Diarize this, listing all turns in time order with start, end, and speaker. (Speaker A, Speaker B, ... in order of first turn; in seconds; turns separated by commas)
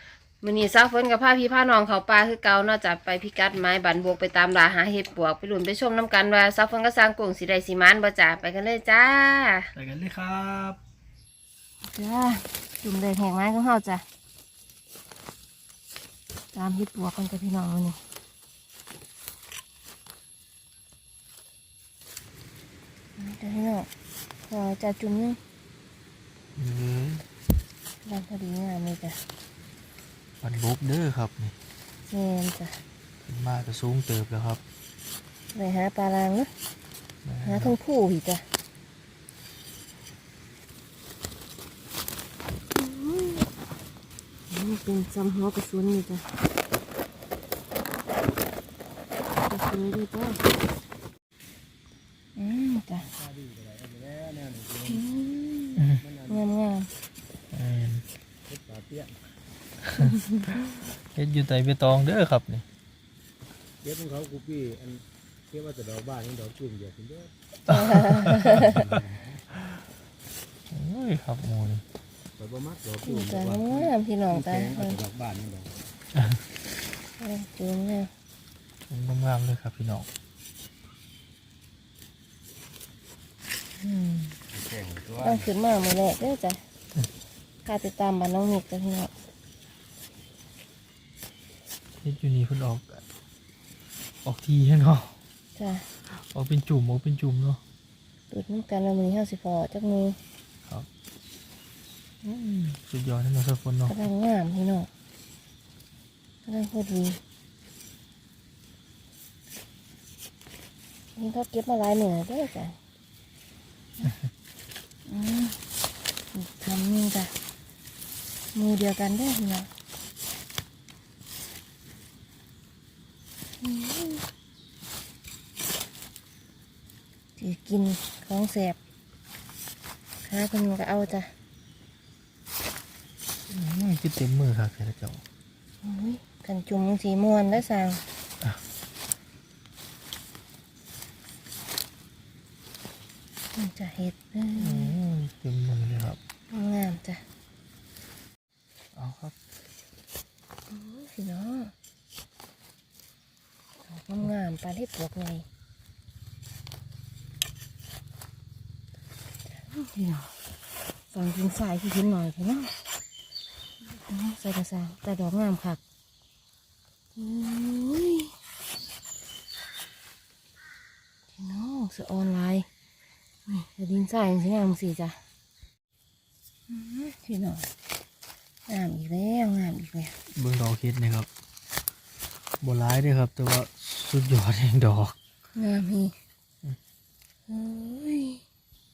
Speaker A: 0.4-9.7, Speaker B: 9.8-10.8, Speaker A: 11.8-14.0, Speaker A: 16.5-18.0, Speaker A: 23.2-23.9, Speaker A: 24.4-25.4, Speaker B: 26.6-27.2, Speaker A: 28.0-29.2, Speaker B: 30.4-31.5, Speaker A: 32.1-32.8, Speaker B: 33.2-34.6, Speaker A: 35.5-36.5, Speaker B: 37.2-37.8, Speaker A: 37.4-38.4, Speaker A: 42.8-43.5, Speaker A: 44.5-46.3, Speaker A: 49.4-50.4, Speaker A: 52.4-53.1, Speaker C: 53.0-55.0, Speaker A: 54.9-56.9, Speaker C: 56.0-56.4, Speaker B: 57.5-58.0, Speaker C: 58.5-59.1, Speaker B: 60.8-62.6, Speaker C: 63.8-67.3, Speaker A: 67.7-68.8, Speaker B: 67.7-68.8, Speaker C: 68.5-69.4, Speaker B: 70.7-71.8, Speaker C: 72.4-75.8, Speaker A: 73.0-75.0, Speaker A: 77.2-78.1, Speaker B: 78.9-80.1, Speaker B: 83.8-84.4, Speaker C: 84.5-85.5, Speaker A: 85.2-86.6, Speaker A: 87.7-89.1, Speaker B: 92.0-93.0, Speaker B: 94.2-95.2, Speaker A: 95.6-95.9, Speaker B: 96.1-97.6, Speaker A: 98.3-100.2, Speaker B: 102.2-104.0, Speaker A: 103.9-104.9, Speaker A: 106.5-107.2, Speaker A: 111.2-112.8, Speaker A: 115.1-115.6, Speaker A: 116.3-117.3, Speaker A: 118.5-119.7, Speaker A: 123.6-124.3, Speaker A: 127.4-128.8, Speaker A: 130.2-131.3, Speaker B: 133.5-135.2, Speaker A: 135.8-138.0, Speaker A: 143.5-145.0, Speaker B: 144.6-146.2, Speaker A: 146.5-147.2, Speaker B: 149.0-149.3, Speaker A: 150.7-151.7, Speaker A: 153.8-155.5, Speaker A: 159.6-160.3, Speaker A: 161.1-162.7, Speaker A: 164.0-165.8, Speaker A: 167.2-168.3, Speaker A: 171.4-172.7, Speaker A: 173.5-175.2, Speaker A: 176.7-177.7, Speaker A: 178.7-180.1, Speaker B: 180.3-181.3, Speaker B: 182.6-185.2, Speaker A: 185.6-186.1, Speaker A: 187.5-188.4